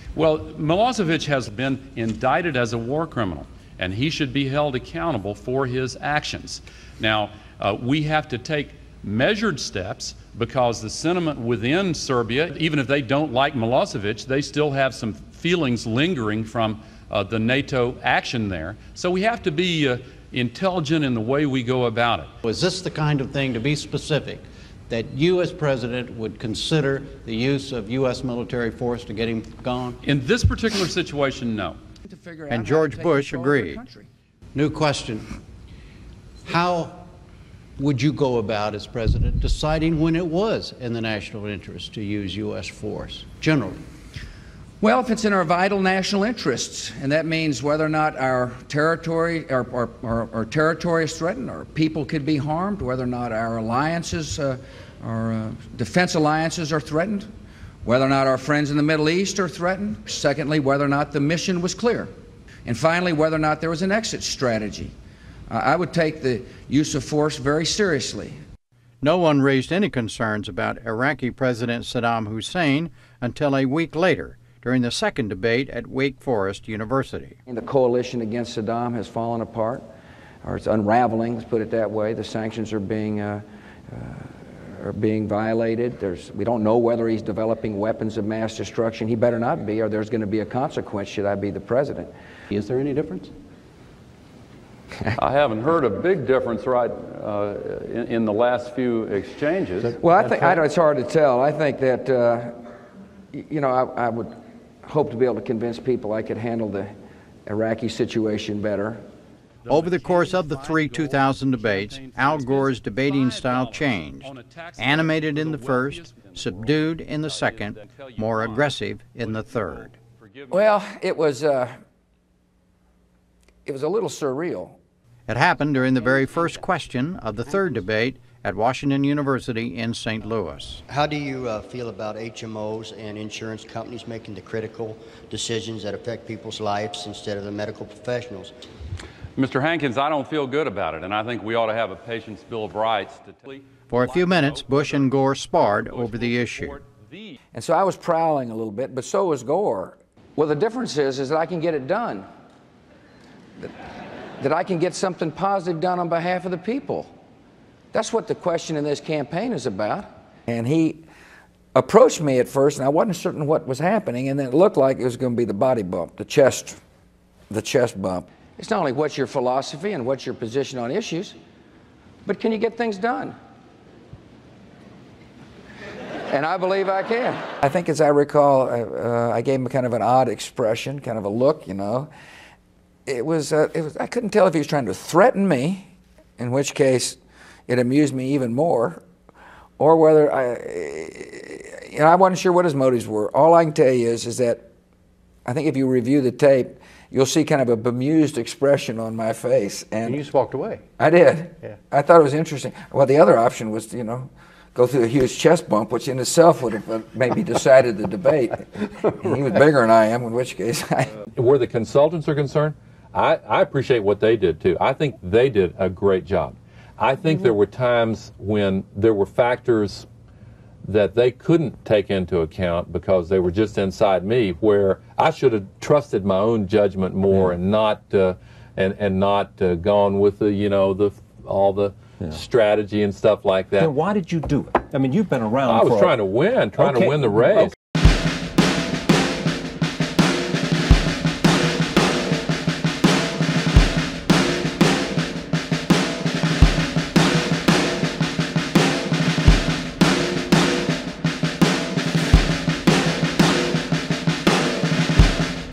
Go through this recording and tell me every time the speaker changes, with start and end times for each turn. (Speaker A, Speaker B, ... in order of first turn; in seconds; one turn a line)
Speaker A: 0.1-22.3
Speaker B: 22.4-30.0
Speaker A: 30.0-31.8
Speaker C: 32.0-34.1
Speaker B: 32.5-33.8
Speaker B: 34.5-35.3
Speaker B: 36.5-37.0
Speaker B: 37.8-43.8
Speaker C: 44.8-57.3
Speaker C: 57.8-62.1
Speaker C: 62.6-65.0
Speaker C: 65.5-68.4
Speaker B: 69.0-77.4
Speaker C: 77.5-79.8
Speaker C: 80.4-92.1
Speaker B: 92.5-93.3
Speaker A: 95.2-99.9
Speaker C: 100.0-102.6
Speaker C: 103.3-104.3
Speaker C: 104.8-106.9
Speaker C: 107.5-109.0
Speaker A: 109.7-120.7
Speaker B: 109.7-120.0
Speaker C: 120.5-121.8
Speaker C: 123.7-124.8
Speaker B: 125.3-130.8
Speaker D: 130.9-138.5
Speaker A: 139.4-147.4
Speaker B: 143.9-146.8
Speaker C: 147.5-152.3
Speaker C: 154.4-157.1
Speaker C: 157.9-161.0
Speaker C: 161.8-166.8
Speaker C: 167.5-171.4
Speaker C: 172.2-173.4
Speaker C: 176.3-182.1
Speaker C: 183.1-189.0
Speaker C: 189.8-194.7
Speaker C: 195.4-200.3
Speaker C: 201.0-211.1
Speaker E: 211.4-220.1
Speaker E: 220.9-233.9
Speaker F: 233.8-236.2
Speaker E: 235.7-237.7
Speaker F: 236.8-237.7